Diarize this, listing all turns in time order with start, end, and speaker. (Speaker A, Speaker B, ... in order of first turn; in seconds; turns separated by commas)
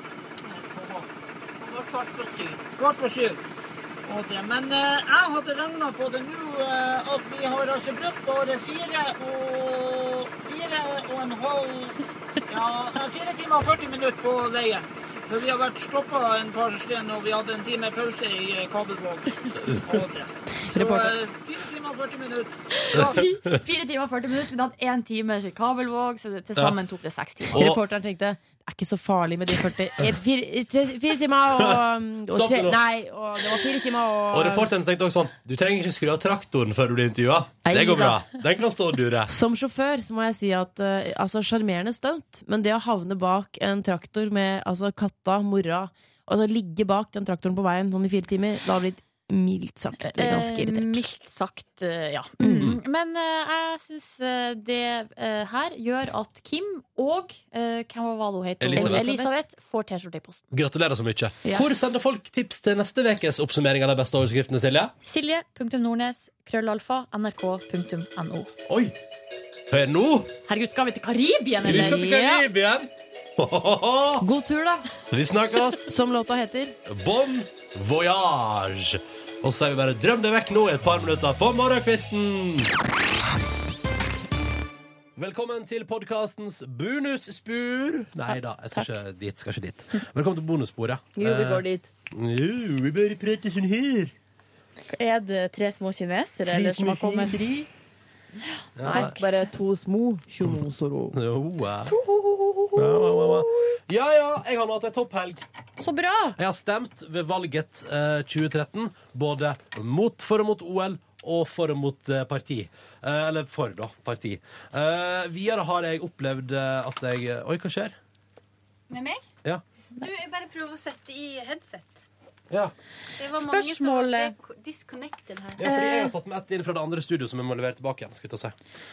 Speaker A: 0.5-3.4, Speaker A: 4.1-23.2, Speaker B: 20.7-21.1, Speaker C: 22.9-27.6, Speaker D: 27.5-27.8, Speaker B: 27.6-34.7, Speaker D: 32.3-32.9, Speaker D: 34.3-39.3, Speaker B: 37.6-38.2, Speaker B: 39.3-51.0, Speaker C: 50.0-60.4, Speaker B: 52.4-52.8, Speaker D: 58.6-59.1, Speaker B: 58.8-59.4, Speaker D: 60.5-64.9, Speaker C: 65.0-68.5, Speaker D: 68.7-68.9, Speaker D: 69.7-70.3, Speaker C: 70.5-72.0, Speaker D: 71.6-74.2, Speaker B: 71.6-72.5, Speaker B: 74.2-74.9, Speaker D: 75.1-75.8, Speaker B: 75.8-76.7, Speaker D: 76.9-82.7, Speaker D: 85.2-94.1, Speaker C: 88.3-88.9, Speaker B: 91.2-91.9, Speaker C: 94.9-97.7, Speaker D: 96.5-97.6, Speaker D: 98.8-99.1, Speaker B: 98.8-101.2, Speaker D: 101.1-102.0, Speaker C: 101.9-103.4, Speaker D: 102.8-105.4, Speaker C: 105.8-106.4, Speaker D: 106.4-117.9, Speaker E: 118.9-119.3, Speaker E: 120.0-122.1, Speaker E: 123.2-125.7, Speaker C: 123.4-124.3, Speaker D: 125.6-128.5, Speaker C: 125.6-126.1